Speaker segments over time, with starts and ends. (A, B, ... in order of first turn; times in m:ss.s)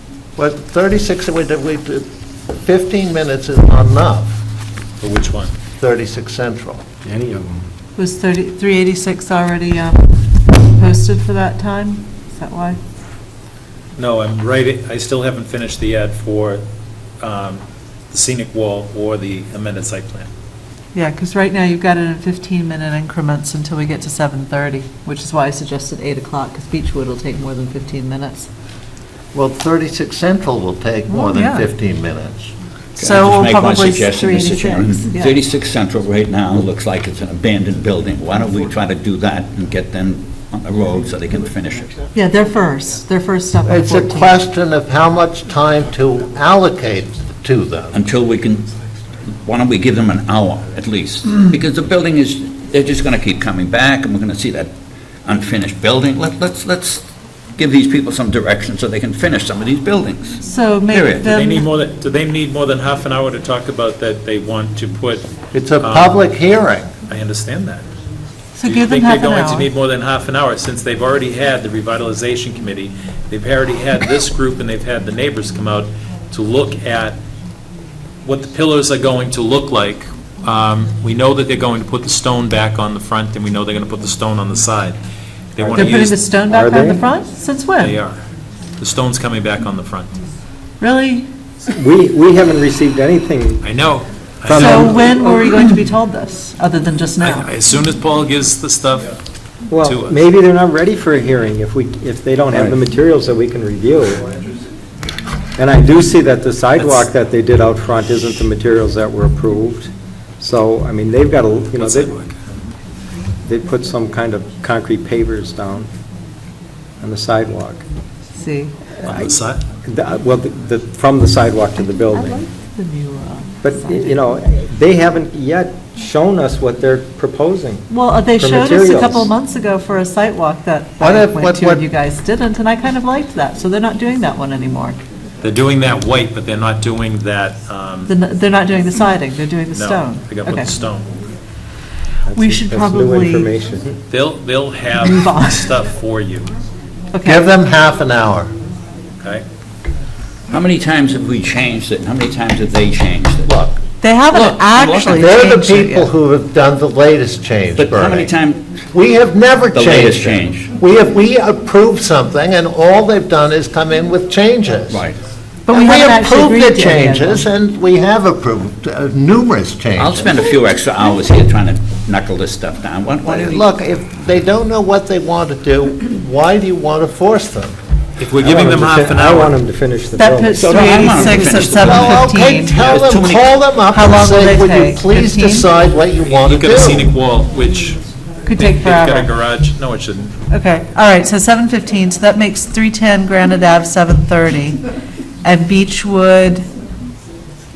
0:00.4-0:04.4 A
0:05.0-0:05.5 B
0:05.8-0:06.8 A
0:07.0-0:07.6 C
0:08.0-0:12.8 D
0:14.0-0:16.6 B
0:17.2-0:20.3 B
0:20.9-0:28.5 D
0:29.3-0:32.5 A
0:31.1-0:31.7 D
0:33.0-0:42.0 E
0:33.0-0:35.4 D
0:42.1-0:44.4 D
0:43.7-0:48.0 A
0:47.9-0:48.7 E
0:49.3-0:54.7 E
0:55.2-1:01.3 E
1:00.4-1:01.6 D
1:01.2-1:05.3 B
1:05.5-1:06.9 A
1:05.8-1:06.2 B
1:07.1-1:07.8 B
1:08.6-1:09.7 D
1:08.6-1:17.2 B
1:18.2-1:25.0 B
1:25.6-1:26.2 B
1:25.6-1:27.0 C
1:25.8-1:28.0 D
1:27.8-1:28.2 B
1:28.8-1:30.1 B
1:30.8-1:31.3 D
1:31.7-1:33.7 C
1:33.6-1:35.0 B
1:34.5-1:35.6 C
1:34.5-1:37.5 D
1:37.2-1:39.2 B
1:39.7-1:44.2 C
1:39.8-1:40.2 B
1:42.5-1:42.8 B
1:45.6-1:52.2 C
1:46.8-1:47.1 B
1:51.7-1:52.4 B
1:53.4-1:55.9 C
1:57.0-1:57.8 C
1:58.4-1:58.7 D
1:59.0-1:59.6 B
1:59.0-2:02.4 C
2:02.1-2:04.2 D
2:03.6-2:09.3 C
2:07.9-2:15.0 D
2:11.0-2:11.8 A
2:15.4-2:18.1 B
2:18.1-2:20.7 D
2:19.7-2:21.1 B
2:22.3-2:24.0 C
2:22.3-2:23.5 D
2:24.1-2:26.5 B
2:25.0-2:25.7 D
2:27.1-2:27.4 D
2:27.2-2:28.5 A
2:30.5-2:33.6 E
2:33.5-2:33.8 A
2:34.0-2:36.1 D
2:34.3-2:35.2 E
2:35.1-2:38.3 A
2:37.8-2:38.8 E
2:38.9-2:45.0 A
2:39.7-2:40.7 E
2:44.9-2:45.2 E
2:45.7-2:47.5 D
2:45.7-2:50.3 A
2:50.0-2:53.7 E
2:53.2-2:57.8 A
2:58.2-2:59.6 B
2:58.4-3:00.6 C
3:00.2-3:03.0 D
3:00.5-3:02.2 E
3:01.4-3:07.1 A
3:02.8-3:03.6 E
3:03.9-3:05.7 D
3:06.3-3:10.4 B
3:08.4-3:09.3 D
3:10.5-3:14.8 D
3:15.4-3:16.7 D